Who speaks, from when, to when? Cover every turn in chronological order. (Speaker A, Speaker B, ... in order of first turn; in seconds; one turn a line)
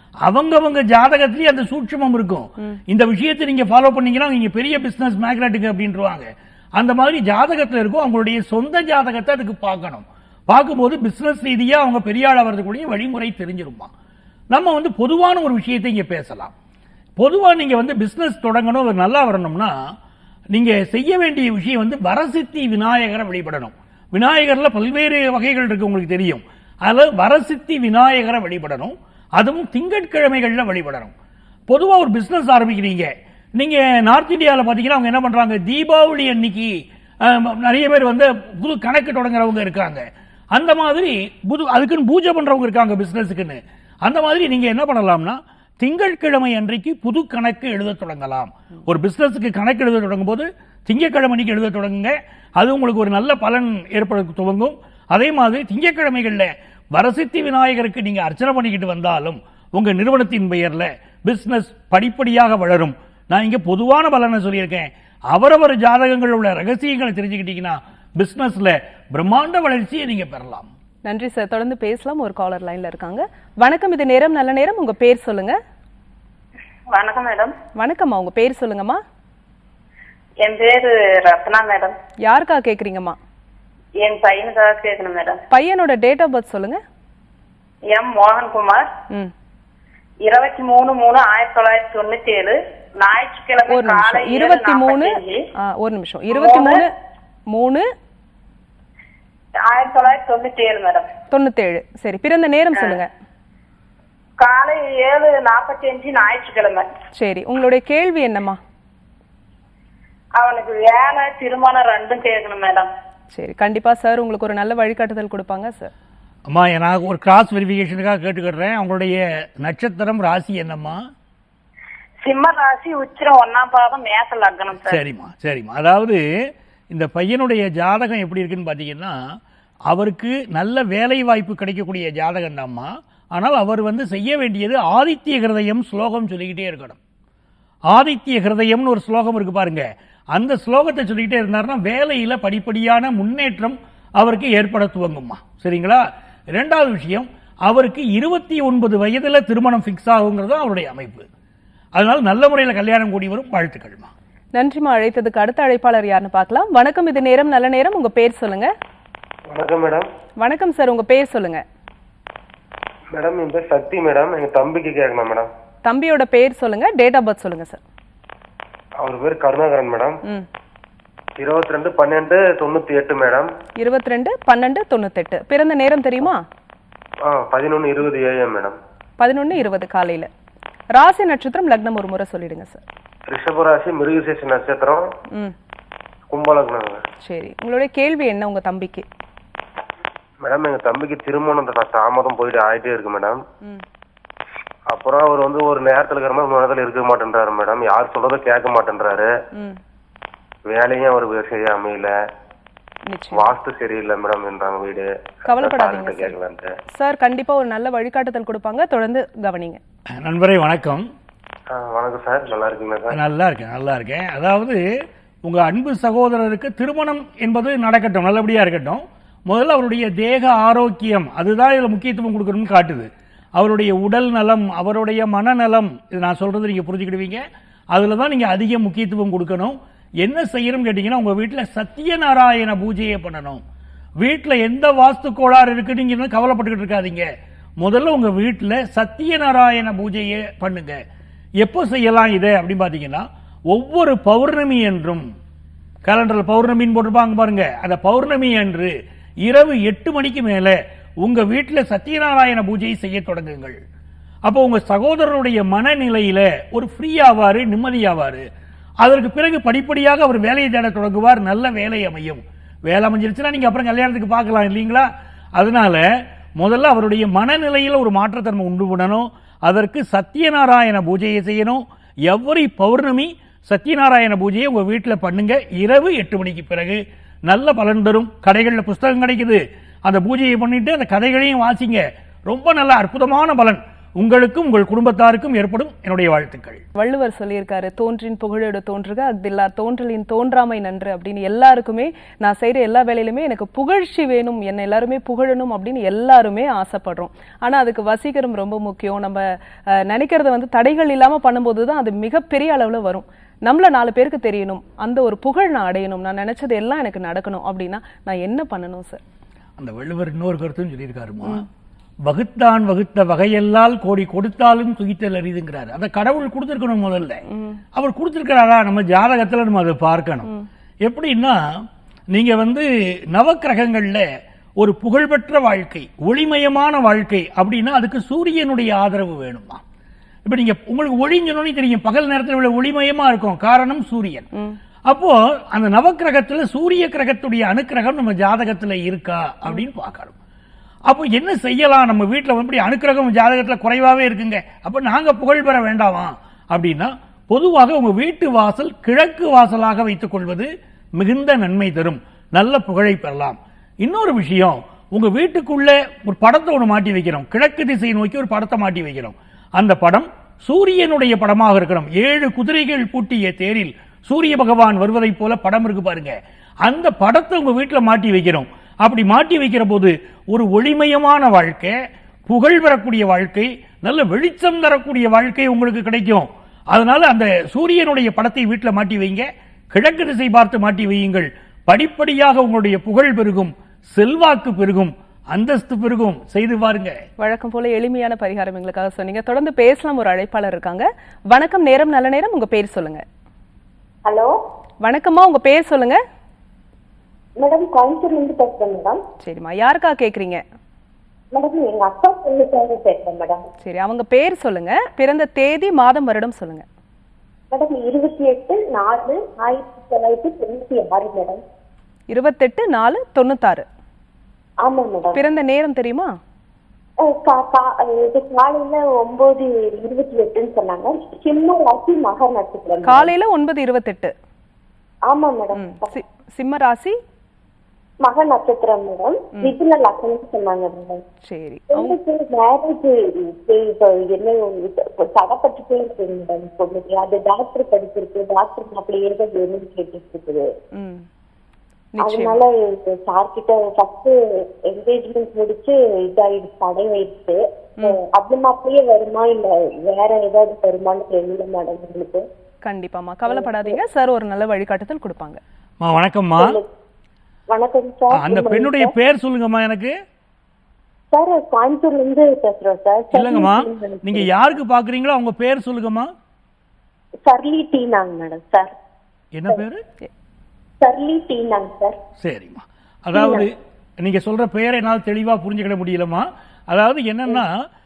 Speaker A: 0.2-13.9
Speaker A: 14.5-16.5
Speaker A: 17.2-19.7
Speaker A: 20.5-31.1
Speaker A: 31.7-70.7
Speaker B: 71.0-75.6
Speaker C: 76.9-77.5
Speaker B: 77.8-79.0
Speaker C: 80.4-82.0
Speaker B: 82.2-83.2
Speaker C: 84.0-85.4
Speaker B: 85.5-86.8
Speaker C: 87.9-88.9
Speaker C: 90.2-95.4
Speaker B: 93.7-96.9
Speaker C: 96.3-96.9
Speaker B: 97.5-97.8
Speaker C: 99.7-101.1
Speaker B: 101.3-103.1
Speaker C: 104.4-106.8
Speaker B: 107.2-108.6
Speaker C: 110.4-112.9
Speaker B: 113.3-115.9
Speaker A: 116.5-121.0
Speaker C: 122.2-125.0
Speaker A: 124.8-126.2
Speaker A: 126.9-129.2
Speaker A: 129.9-137.0
Speaker A: 137.9-146.0
Speaker A: 146.5-151.2
Speaker A: 151.9-154.1
Speaker B: 154.5-158.7
Speaker D: 159.5-160.1
Speaker B: 160.4-161.6
Speaker D: 163.1-165.5
Speaker B: 165.8-167.8
Speaker D: 169.0-170.2
Speaker D: 171.4-173.5
Speaker B: 173.8-176.4
Speaker D: 177.2-178.8
Speaker B: 179.2-180.3
Speaker B: 180.9-182.8
Speaker D: 183.3-185.1
Speaker D: 186.3-187.0
Speaker B: 187.2-189.0
Speaker D: 190.4-193.4
Speaker D: 194.9-199.3
Speaker D: 200.7-202.1
Speaker B: 203.1-203.5
Speaker D: 203.3-206.7
Speaker B: 205.4-206.3
Speaker B: 206.9-209.8
Speaker A: 210.2-211.0
Speaker D: 211.7-213.2
Speaker A: 213.1-214.8
Speaker A: 215.4-233.6
Speaker A: 234.2-237.2
Speaker A: 237.8-241.0
Speaker A: 241.6-245.2
Speaker A: 246.0-253.8
Speaker A: 254.4-258.4
Speaker A: 259.0-266.0
Speaker A: 266.6-286.8
Speaker B: 286.9-309.2
Speaker A: 309.8-311.6
Speaker A: 312.2-317.4
Speaker B: 317.5-317.8
Speaker A: 317.9-320.5
Speaker A: 321.0-324.2
Speaker A: 324.8-329.8
Speaker A: 330.4-334.4
Speaker A: 335.1-340.3
Speaker A: 341.1-371.9
Speaker A: 372.5-387.2
Speaker B: 387.4-393.2
Speaker E: 394.2-394.5
Speaker B: 395.0-396.2
Speaker E: 397.6-399.2
Speaker B: 399.4-400.6
Speaker E: 401.5-403.6
Speaker B: 403.8-406.8
Speaker E: 407.7-411.6
Speaker B: 412.3-413.8
Speaker E: 414.8-415.4
Speaker B: 415.3-416.3
Speaker E: 417.2-423.3
Speaker B: 423.0-424.3
Speaker E: 425.3-426.2
Speaker B: 425.7-427.2
Speaker E: 428.2-431.2
Speaker B: 431.4-432.2
Speaker E: 431.9-440.7
Speaker B: 440.9-441.2
Speaker B: 442.1-442.6
Speaker E: 442.2-452.4
Speaker B: 452.8-455.6
Speaker E: 453.5-454.0
Speaker A: 456.0-456.8
Speaker E: 456.6-456.9
Speaker E: 457.7-459.1
Speaker A: 458.3-460.1
Speaker E: 461.3-464.8
Speaker A: 463.3-466.3
Speaker E: 467.4-468.9
Speaker A: 469.5-470.0
Speaker E: 471.0-472.2
Speaker A: 472.4-477.7
Speaker E: 473.3-473.7